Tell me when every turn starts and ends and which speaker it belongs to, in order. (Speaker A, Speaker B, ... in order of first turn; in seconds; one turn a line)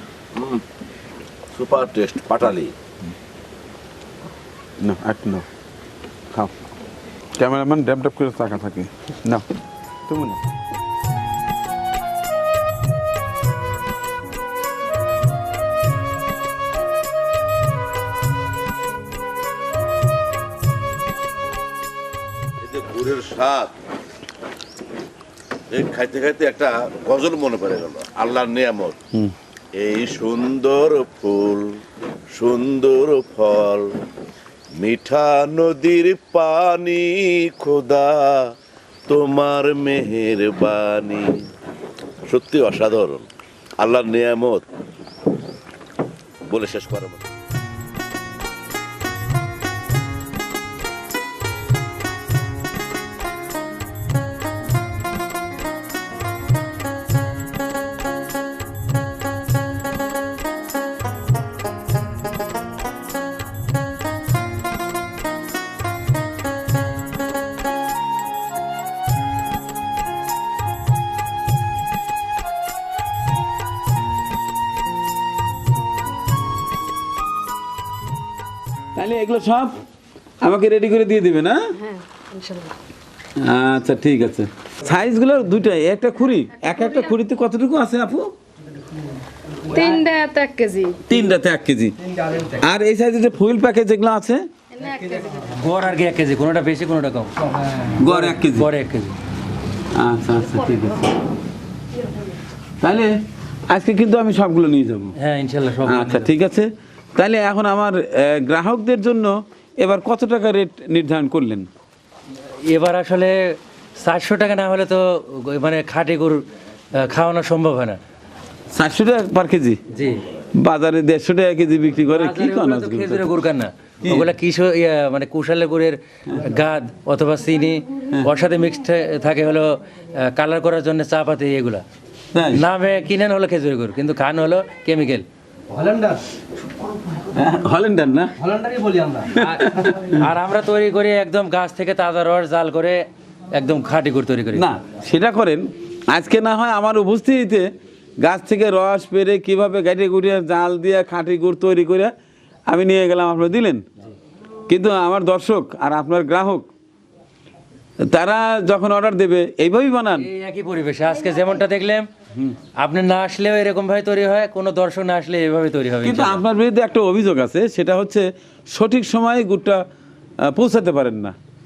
Speaker A: 0.3-0.6
Speaker A: 1.5-2.7
Speaker B: 4.8-5.5
Speaker B: 7.4-9.4
Speaker B: 10.1-10.4
Speaker A: 22.6-23.7
Speaker A: 25.7-29.0
Speaker A: 29.7-31.7
Speaker A: 32.3-33.9
Speaker A: 34.8-38.4
Speaker A: 39.1-41.4
Speaker A: 42.3-43.2
Speaker A: 43.8-44.6
Speaker A: 46.5-47.2
Speaker B: 78.9-79.8
Speaker B: 80.4-81.7
Speaker C: 81.8-82.7
Speaker B: 83.4-88.3
Speaker C: 89.7-91.0
Speaker B: 91.0-94.5
Speaker C: 94.7-95.4
Speaker D: 95.5-97.3
Speaker B: 98.0-98.7
Speaker D: 98.5-99.2
Speaker B: 99.9-101.2
Speaker B: 102.8-103.1
Speaker B: 103.7-105.1
Speaker D: 105.2-106.3
Speaker B: 105.8-111.7
Speaker D: 112.7-116.4
Speaker D: 117.0-118.0
Speaker B: 118.7-119.8
Speaker D: 119.9-120.2
Speaker B: 120.6-123.3
Speaker D: 122.0-131.8
Speaker B: 124.0-124.3
Speaker B: 132.3-132.6
Speaker D: 132.6-135.2
Speaker E: 135.7-136.2
Speaker B: 137.3-138.3
Speaker E: 138.4-139.9
Speaker B: 139.3-140.2
Speaker D: 140.2-143.0
Speaker D: 143.5-144.6
Speaker B: 144.5-147.7
Speaker B: 148.2-152.1
Speaker B: 152.7-153.8
Speaker B: 154.7-156.7
Speaker B: 158.0-160.3
Speaker D: 160.2-162.1
Speaker D: 162.8-166.4
Speaker B: 166.0-169.8
Speaker B: 170.4-171.3